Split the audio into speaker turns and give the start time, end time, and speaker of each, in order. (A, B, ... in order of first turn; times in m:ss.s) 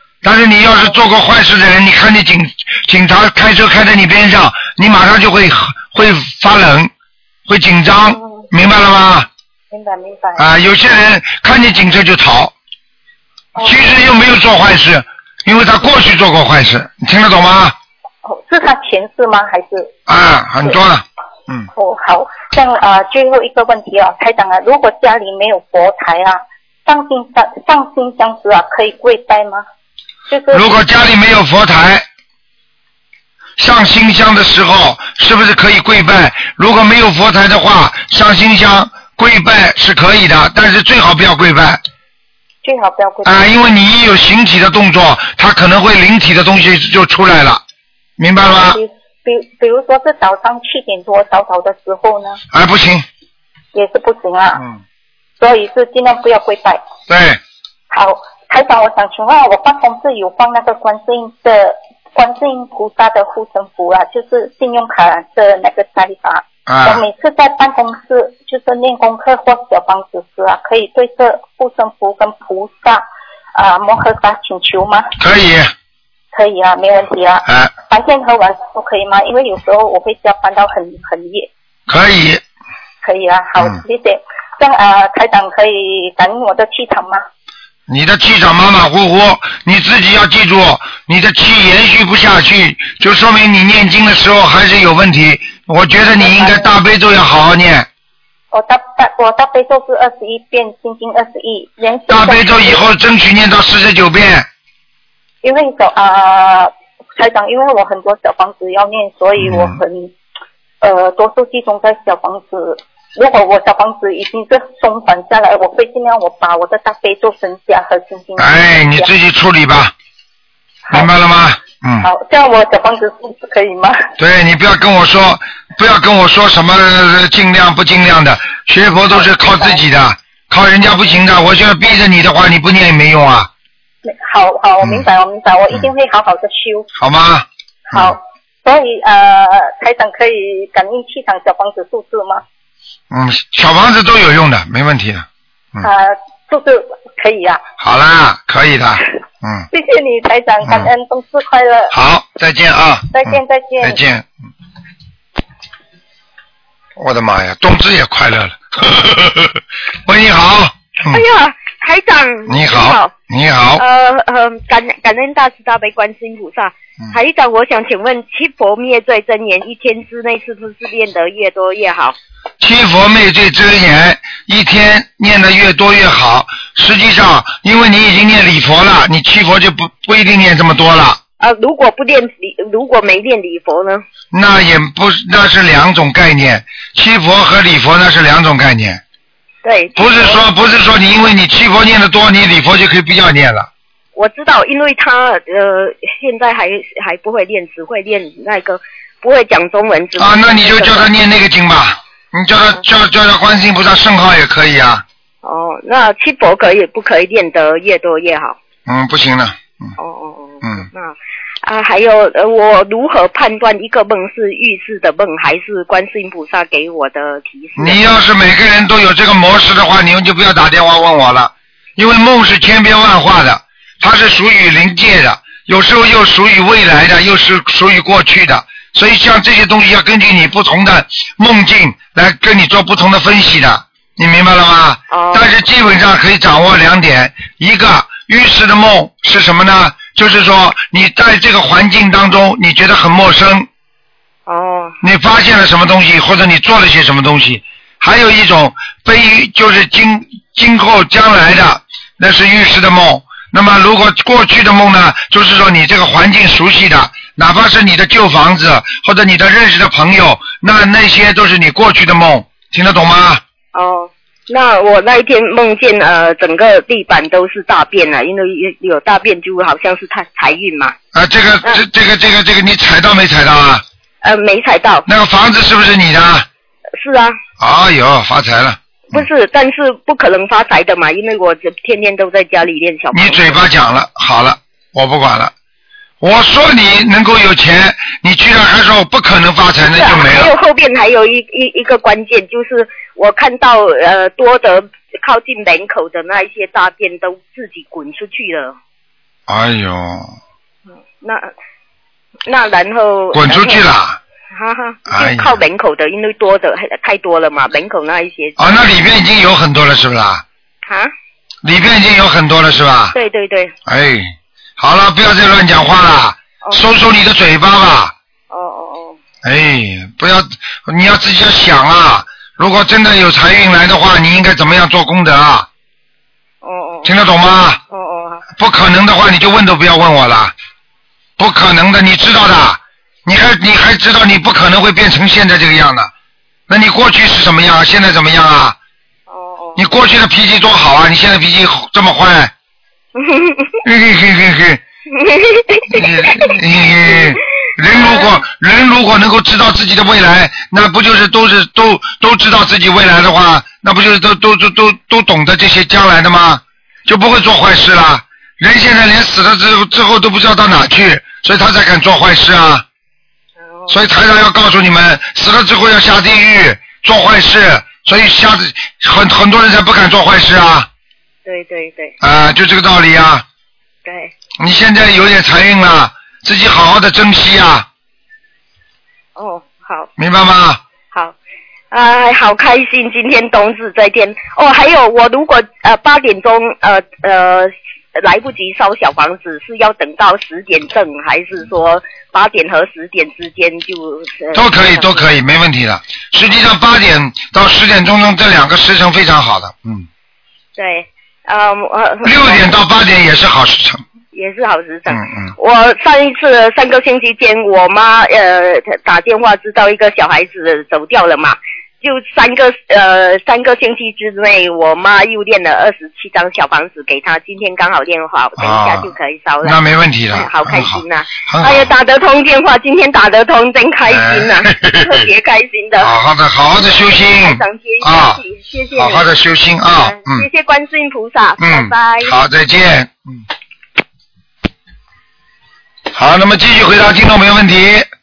0:00.2-0:06.9 A
0:07.5-0:09.3 A
0:08.0-0:08.4 B
0:09.7-0:10.4 B
0:10.4-0:12.5 A
0:13.6-0:13.8 B
0:13.6-0:17.7 A
0:18.2-0:19.9 B
0:20.1-0:21.7 A
0:21.7-0:29.6 B
0:30.3-0:30.8 B
0:30.5-0:32.0 A
0:33.6-0:41.8 A
0:42.6-0:43.5 B
0:43.2-0:47.6 A
0:48.2-0:48.8 A
0:48.4-0:52.4 B
0:52.5-0:53.0 A
0:53.7-0:54.6 B
0:55.4-0:56.8 B
0:57.1-0:57.4 A
0:57.9-1:15.1 B
1:06.7-1:07.0 A
1:15.2-1:15.7 A
1:16.3-1:21.5 B
1:17.4-1:17.7 A
1:21.9-1:22.4 A
1:23.0-1:27.2 B
1:27.9-1:37.9 A
1:36.0-1:36.7 B
1:38.5-1:42.8 B
1:42.1-1:44.5 A
1:45.4-1:50.1 B
1:49.4-1:49.8 A
1:50.8-1:59.1 B
1:58.4-1:59.9 A
2:00.8-2:01.1 B
2:00.9-2:02.1 A
2:02.0-2:04.0 B
2:04.2-2:13.5 A
2:09.1-2:09.8 B
2:14.0-2:16.9 B
2:17.0-2:18.2 A
2:17.9-2:22.4 B
2:23.1-2:25.9 A
2:25.8-2:27.6 B
2:27.8-2:29.6 A
2:29.7-2:31.9 B
2:31.9-2:34.3 A
2:33.1-2:34.0 B
2:37.0-2:41.2 A
2:41.0-2:43.1 C
2:42.5-2:43.8 A
2:43.7-2:52.2 C
2:52.6-3:01.2 A
3:01.4-3:04.0 C
3:04.3-3:09.0 A
3:09.6-3:10.4 C
3:10.0-3:13.7 A
3:14.1-3:21.1 C
3:20.2-3:25.0 A
3:25.4-3:28.6 C
3:28.9-3:30.0 A
3:30.0-3:38.1 C
3:37.8-4:03.7 A
3:55.1-3:55.5 C
4:04.4-4:05.0 C
4:05.0-4:23.4 A
4:23.7-4:31.0 C
4:31.1-4:33.8 A
4:34.2-4:35.0 C
4:35.1-4:36.5 A
4:37.0-4:37.4 C
4:37.6-4:39.2 A
4:39.1-4:43.6 C
4:43.1-4:45.5 A
4:46.2-4:50.5 A
4:49.9-4:58.8 C
4:59.5-5:00.3 A
5:01.2-5:01.5 C
5:02.4-5:03.8 C
5:03.3-5:04.2 A
5:04.5-5:08.8 C
5:05.1-5:05.6 A
5:08.6-5:10.4 A
5:10.8-5:11.1 C
5:11.6-5:13.2 A
5:13.1-5:13.7 C
5:13.8-5:18.1 A
5:18.5-5:19.2 C
5:19.4-5:25.7 A
5:26.6-5:27.1 C
5:27.0-5:27.8 A
5:27.9-5:28.4 C
5:28.6-5:30.5 A
5:31.4-5:36.1 A
5:36.7-5:38.8 A
5:39.3-5:39.8 C
5:39.8-5:42.5 A
5:43.1-5:43.8 C
5:43.8-5:44.8 A
5:45.1-5:46.6 C
5:45.9-6:02.8 A
5:47.1-5:48.3 C
6:03.6-6:04.0 C
6:03.9-6:10.9 A
6:11.4-6:12.1 C
6:12.2-6:13.4 A
6:14.0-6:14.3 C
6:14.6-6:17.9 A
6:19.3-6:20.1 C
6:20.2-6:20.8 A
6:21.9-6:35.4 C
6:34.5-6:40.1 A
6:40.8-6:42.7 C
6:42.2-6:44.0 A
6:44.3-7:06.2 C
6:45.1-6:45.5 A
6:58.6-7:01.9 A
7:04.0-7:05.2 A
7:06.0-7:08.4 A
7:06.9-7:09.3 C
7:08.9-7:10.4 A
7:09.9-7:12.4 C
7:11.6-7:13.4 A
7:16.1-7:18.1 A